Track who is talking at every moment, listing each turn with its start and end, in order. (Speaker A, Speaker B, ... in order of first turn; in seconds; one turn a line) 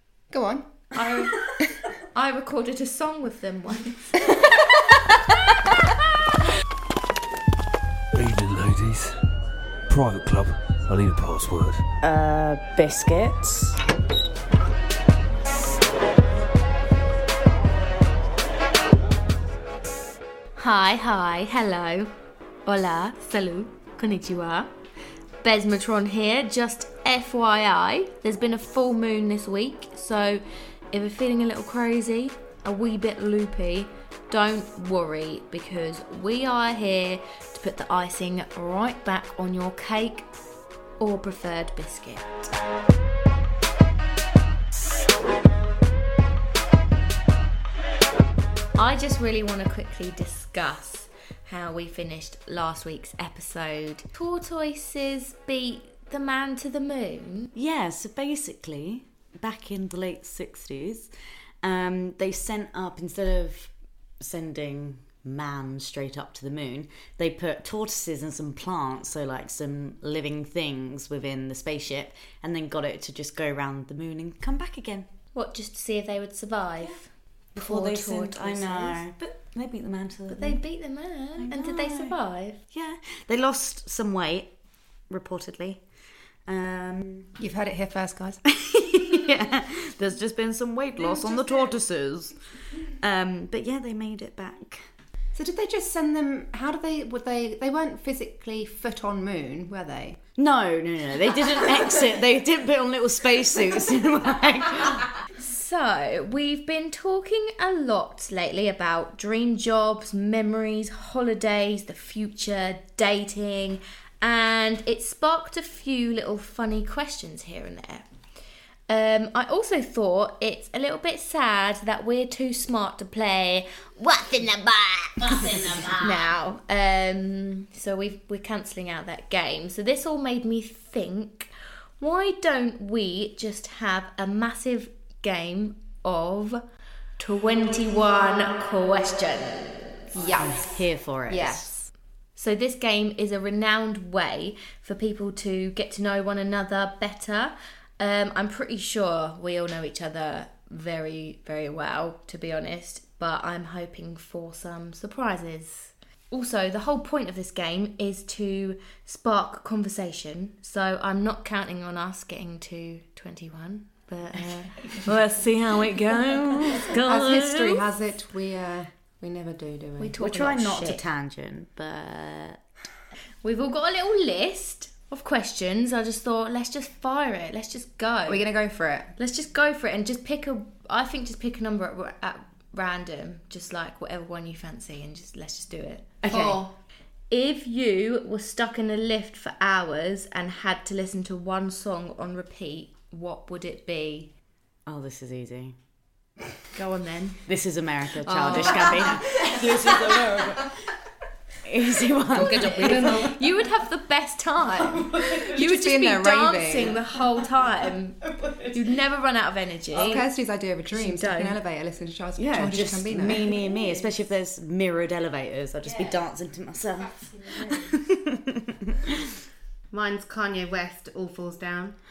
Speaker A: 0.3-1.0
Speaker B: 0.9-4.9
Speaker C: 8.1-9.2
Speaker C: 9.9-11.8
Speaker D: 12.0-13.8
Speaker B: 20.6-22.1
Speaker B: 22.6-24.7
Speaker B: 25.4-40.3
Speaker B: 41.0-42.5
Speaker B: 48.8-57.5
Speaker D: 57.5-61.1
Speaker D: 61.6-75.1
Speaker B: 75.3-79.0
Speaker D: 77.5-80.6
Speaker B: 80.3-82.6
Speaker D: 81.4-82.2
Speaker D: 82.7-84.5
Speaker D: 85.1-85.8
Speaker D: 86.5-87.3
Speaker A: 87.4-88.4
Speaker D: 88.5-94.8
Speaker A: 91.0-91.7
Speaker A: 95.3-100.2
Speaker D: 100.4-105.1
Speaker B: 105.4-118.1
Speaker B: 118.9-136.6
Speaker D: 125.2-126.3
Speaker B: 137.2-140.2
Speaker A: 140.1-140.7
Speaker D: 140.3-141.7
Speaker A: 141.3-141.9
Speaker B: 142.3-167.8
Speaker D: 166.3-167.4
Speaker A: 166.9-170.2
Speaker B: 170.0-171.0
Speaker D: 170.2-172.6
Speaker B: 173.4-178.4
Speaker A: 178.3-179.1
Speaker B: 179.2-186.7
Speaker E: 186.2-186.7
Speaker B: 187.3-194.3
Speaker D: 194.8-195.7
Speaker B: 196.7-197.4
Speaker D: 197.5-200.8
Speaker E: 198.2-199.2
Speaker B: 198.4-199.4
Speaker D: 201.6-203.3
Speaker E: 202.3-203.4
Speaker B: 202.3-210.2
Speaker D: 204.7-205.7
Speaker A: 205.5-206.9
Speaker D: 208.2-208.8
Speaker A: 209.9-213.5
Speaker B: 210.9-211.6
Speaker D: 212.4-219.1
Speaker B: 213.2-214.1
Speaker B: 215.8-216.2
Speaker B: 217.0-218.0
Speaker E: 219.9-221.9